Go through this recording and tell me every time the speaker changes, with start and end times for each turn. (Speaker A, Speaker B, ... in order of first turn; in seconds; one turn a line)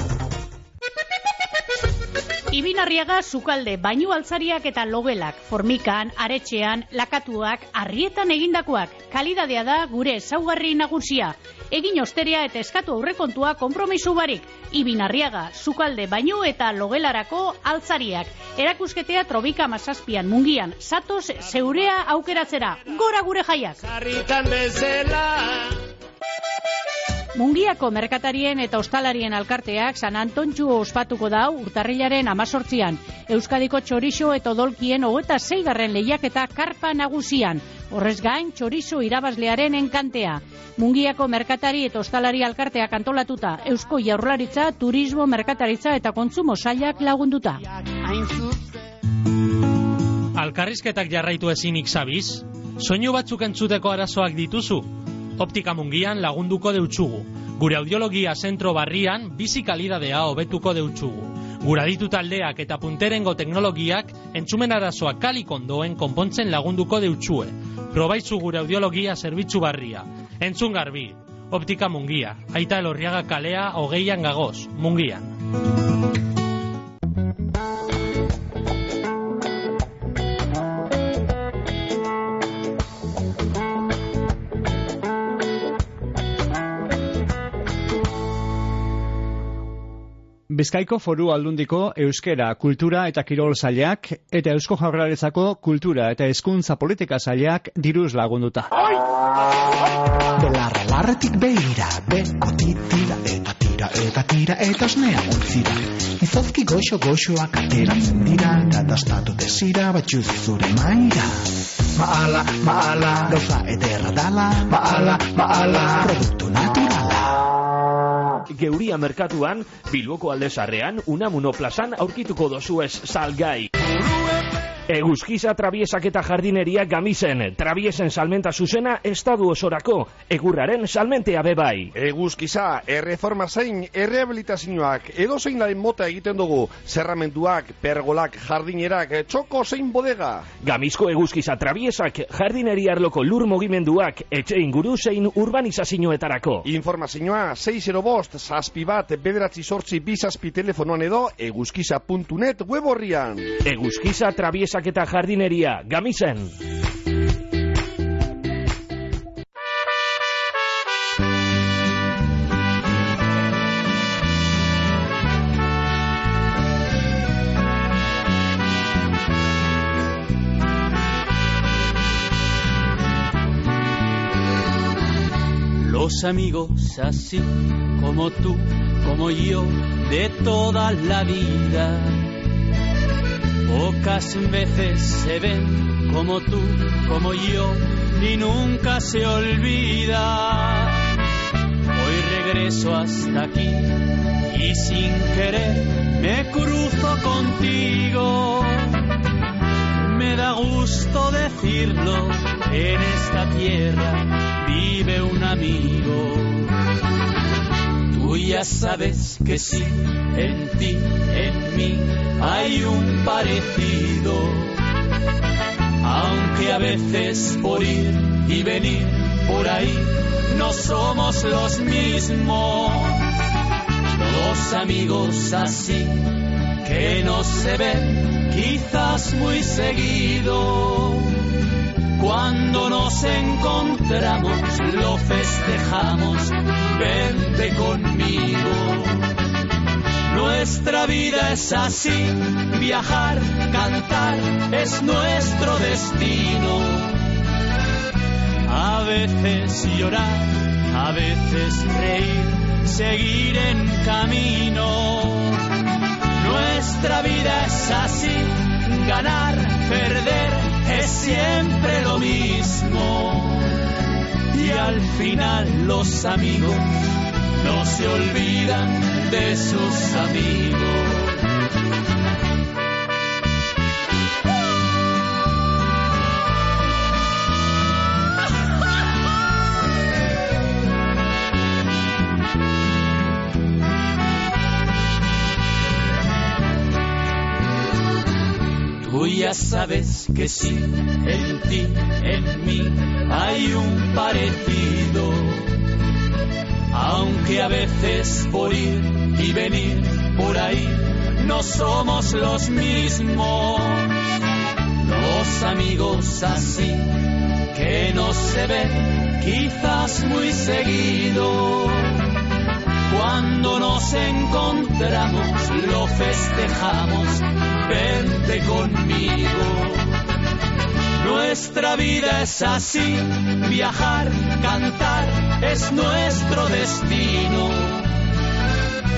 Speaker A: 2.5-23.8
Speaker B: 23.8-25.8
Speaker A: 27.4-47.6
Speaker C: 50.4-75.3
Speaker D: 90.5-98.7
Speaker E: 100.4-117.5
Speaker F: 118.5-123.7
Speaker F: 124.9-131.9
Speaker G: 131.9-140.5
Speaker F: 140.6-146.7
Speaker G: 146.6-153.5
Speaker F: 153.7-156.5
Speaker H: 175.8-182.3
Speaker H: 183.7-191.1
Speaker H: 192.0-198.9
Speaker H: 200.0-206.7
Speaker H: 208.1-214.8
Speaker H: 216.0-223.2
Speaker H: 224.1-231.3
Speaker H: 232.2-239.3
Speaker H: 240.3-247.2
Speaker H: 248.7-255.6
Speaker H: 256.4-263.8
Speaker H: 264.5-267.1
Speaker H: 267.6-271.4
Speaker H: 289.0-295.8
Speaker H: 296.9-304.2
Speaker H: 305.0-307.2
Speaker H: 307.7-312.1
Speaker H: 313.1-320.1
Speaker H: 321.2-328.1